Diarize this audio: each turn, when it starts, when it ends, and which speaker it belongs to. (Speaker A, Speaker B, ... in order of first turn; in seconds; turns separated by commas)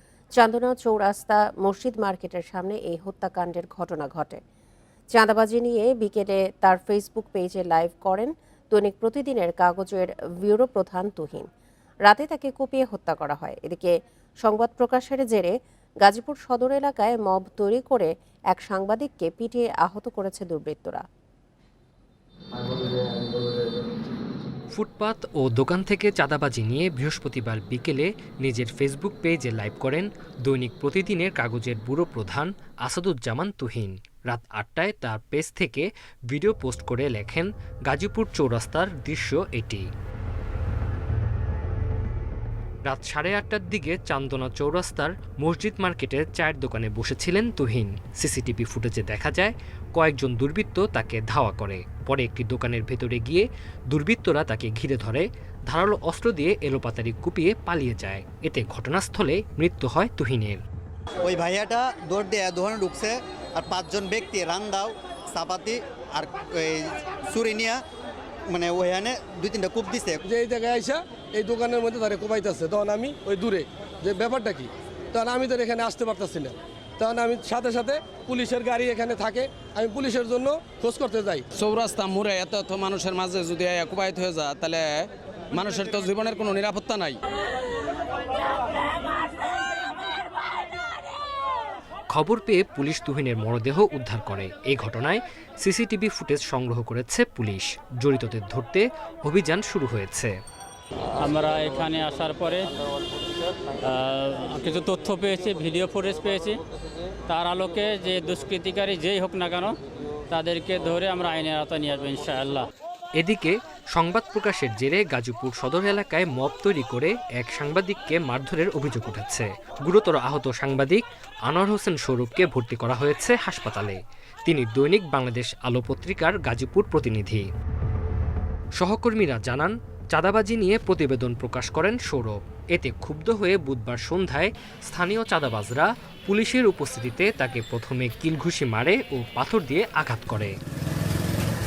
Speaker A: 0.4-4.4, Speaker A: 5.1-11.5, Speaker A: 12.1-21.0, Speaker B: 24.7-39.9, Speaker B: 42.9-60.6, Speaker C: 61.2-67.8, Speaker C: 68.5-70.2, Speaker D: 70.3-81.5, Speaker E: 81.5-87.2, Speaker B: 92.1-100.3, Speaker F: 101.2-102.7, Speaker F: 103.8-106.6, Speaker F: 107.3-109.8, Speaker F: 110.3-112.7, Speaker B: 113.2-127.5, Speaker B: 128.8-140.5